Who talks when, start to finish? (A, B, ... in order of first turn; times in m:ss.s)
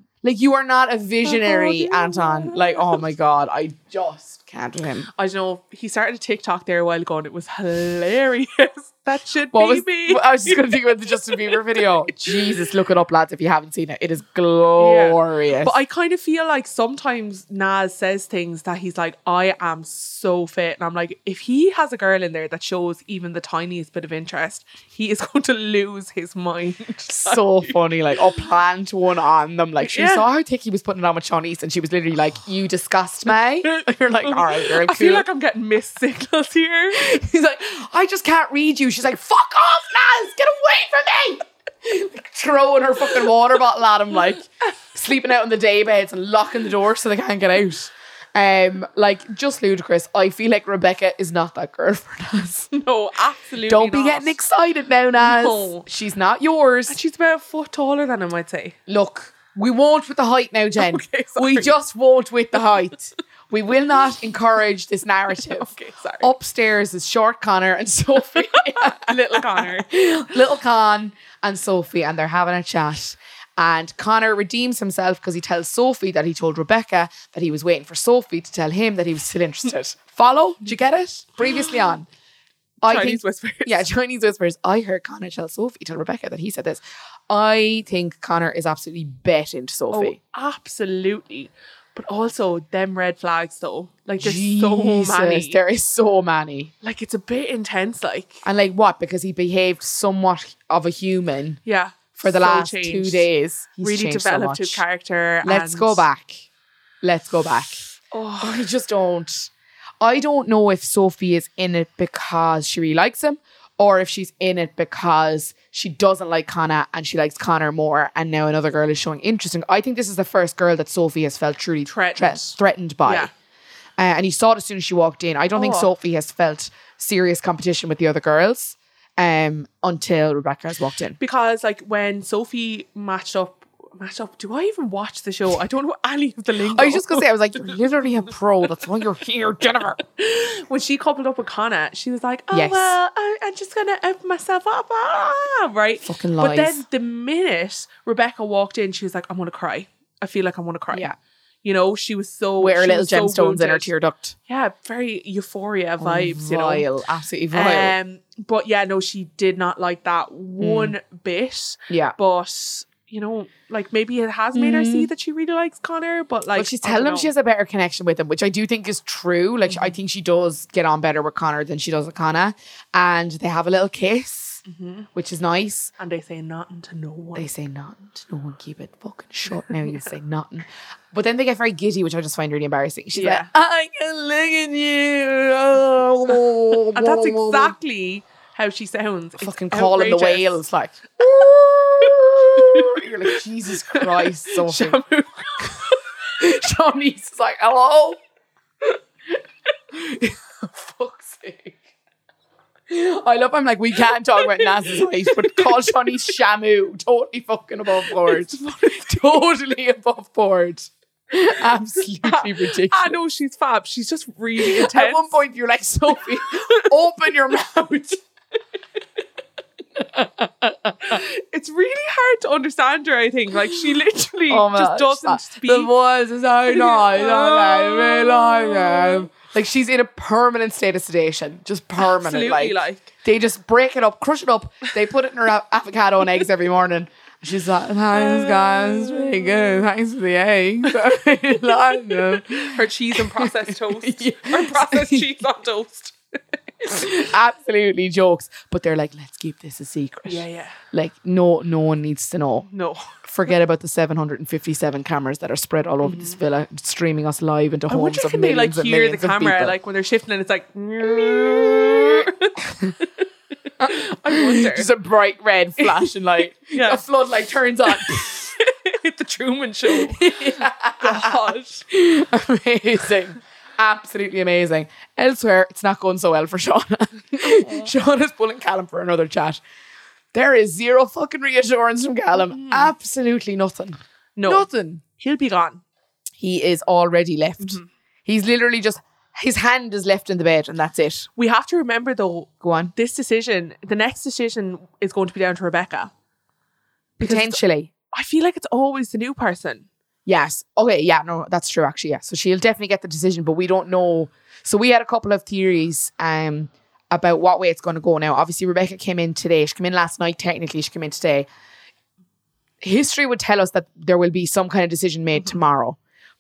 0:00.2-0:05.1 A
0:01.2-0:03.0 B
0:05.1-0:12.6 B
0:09.5-0:15.8 A
0:14.8-0:28.4 B
0:27.1-0:35.3 A
0:29.8-0:30.3 B
0:33.6-0:37.1 B
0:36.9-0:52.7 A
0:52.7-0:54.4 B
0:53.7-0:57.0 A
0:55.2-0:55.8 B
0:56.9-0:58.8 B
0:58.9-1:22.1 A
1:00.8-1:01.7 B
1:05.4-1:06.3 B
1:08.4-1:09.9 B
1:22.8-1:30.2 A
1:22.8-1:23.9 B
1:29.9-1:35.6 B
1:34.2-1:36.7 A
1:36.8-1:38.4 B
1:38.4-1:41.6 A
1:41.6-1:43.3 B
1:42.2-1:44.8 A
1:43.8-1:46.1 B
1:45.4-1:46.4 A
1:47.0-1:47.8 A
1:48.1-1:48.7 B
1:48.4-1:49.5 A
1:50.0-2:03.3 A
2:01.9-2:03.3 B
2:04.0-2:11.2 A
2:05.5-2:05.9 B
2:11.2-2:17.8 B
2:16.8-2:20.0 A
2:20.0-2:31.1 B
2:22.5-2:23.0 A
2:26.0-2:26.8 A
2:31.6-2:33.9 B
2:32.6-2:34.4 A
2:34.5-2:36.9 B
2:36.0-2:38.0 A
2:37.5-2:47.3 B
2:40.6-2:41.0 A
2:41.9-2:42.2 A
2:44.6-2:45.1 A
2:46.6-2:55.9 A
2:49.7-2:50.0 B
2:54.7-2:55.1 B
2:56.0-2:57.5 B
2:57.4-3:07.8 A
2:59.7-3:00.0 B
3:03.1-3:03.5 B
3:06.9-3:10.6 B
3:09.4-3:15.0 A
3:12.0-3:13.4 B
3:13.9-3:16.0 B
3:16.4-3:18.2 A
3:19.9-3:21.8 A
3:22.9-3:33.2 A
3:24.4-3:26.3 B
3:28.0-3:29.5 B
3:32.2-3:35.4 B
3:34.6-3:38.2 A
3:36.1-3:36.9 B
3:40.0-3:41.2 A
3:41.0-3:45.9 B
3:44.5-4:05.3 A
3:46.7-3:49.3 B
3:52.0-3:53.1 B
3:58.1-3:59.9 B
4:00.9-4:07.3 B
4:06.9-4:12.7 A
4:10.3-4:10.8 B
4:12.7-4:13.1 B
4:13.2-4:19.8 A
4:16.0-4:16.4 B
4:17.9-4:23.3 B
4:21.1-4:22.1 A
4:22.7-4:22.9 A
4:23.8-4:28.5 A
4:23.8-4:24.9 B
4:25.8-4:26.1 B
4:26.7-4:27.0 B
4:27.9-4:31.8 B
4:29.9-4:39.6 A
4:37.4-4:37.9 B
4:40.3-4:45.0 A
4:42.4-4:42.9 B
4:44.4-4:45.8 B
4:46.4-4:51.3 A
4:47.6-4:47.9 B
4:51.4-4:56.1 B
4:52.6-4:52.9 A
4:57.2-4:57.9 A
4:57.2-4:57.6 B
4:58.1-4:59.9 B
5:00.3-5:11.5 A
5:12.8-5:16.0 A